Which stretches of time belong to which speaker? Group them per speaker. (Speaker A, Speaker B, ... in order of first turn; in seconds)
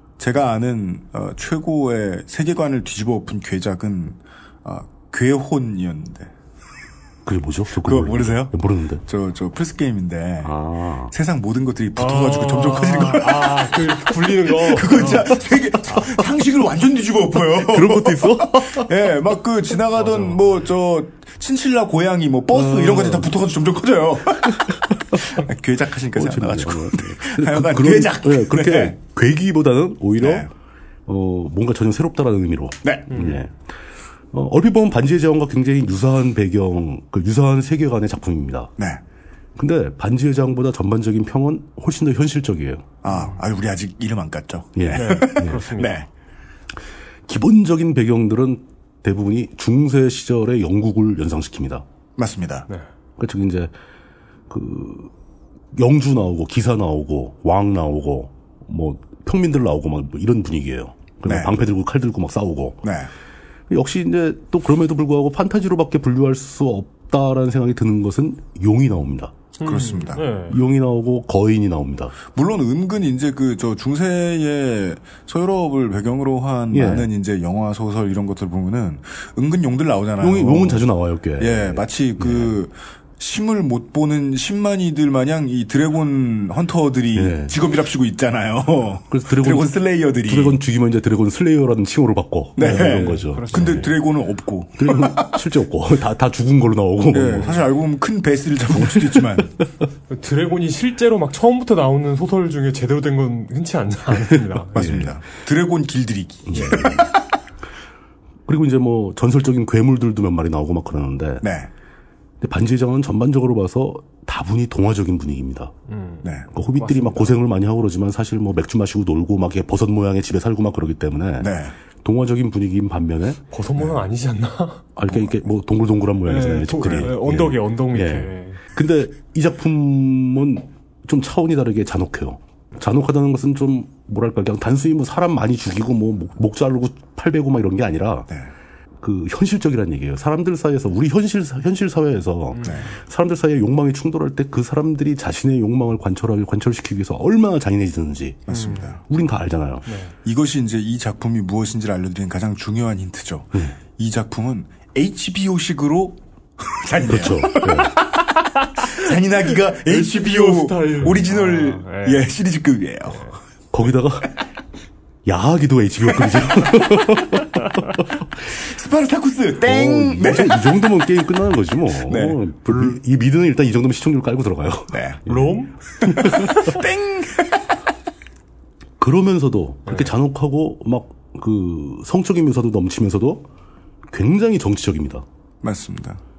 Speaker A: 0.2-6.3, 7.8-10.5, 11.1-13.9, 14.5-29.0, 30.2-30.5, 32.8-33.2, 43.0-46.1, 52.2-52.7, 61.2-61.5, 62.8-63.1, 69.6-70.2, 72.3-80.9, 81.4-90.6, 92.6-95.4, 97.1-99.5, 104.8-107.2, 111.4-111.7, 121.4-121.8, 126.8-127.1, 148.5-149.0, 150.2-158.0, 158.8-163.3, 168.5-170.7, 172.1-172.9, 174.9-175.2, 176.0-177.6, 185.6-186.2
Speaker B: 7.3-9.0, 10.4-11.1, 15.9-16.2, 17.4-18.9, 22.5-23.3, 26.1-30.5, 31.1-33.5, 34.3-38.7, 39.6-42.9, 44.8-45.6, 47.3-51.9, 53.2-53.7, 54.5-55.1, 55.8-62.9, 63.7-69.3, 70.5-72.2, 76.7-77.1, 80.2-82.6, 87.1-87.6, 89.1-93.9, 94.8-97.7, 98.7-99.5, 104.8-105.2, 106.5-107.1, 108.5-111.5, 112.4-115.7, 116.5-123.4, 125.0-138.3, 139.0-148.5, 149.1-149.9, 157.1-158.0, 163.7-164.3, 165.3-167.6, 169.7-176.6, 179.0-183.5, 184.1-185.2
Speaker C: 12.0-15.4, 20.0-20.4, 33.1-33.4, 43.1-43.4, 44.9-46.0, 69.6-70.6, 92.6-94.0, 100.1-105.1, 115.9-117.3, 123.5-124.8, 126.3-128.6, 142.5-142.9, 148.5-149.0, 149.9-150.2, 159.8-162.3, 175.3-176.7, 179.9-180.1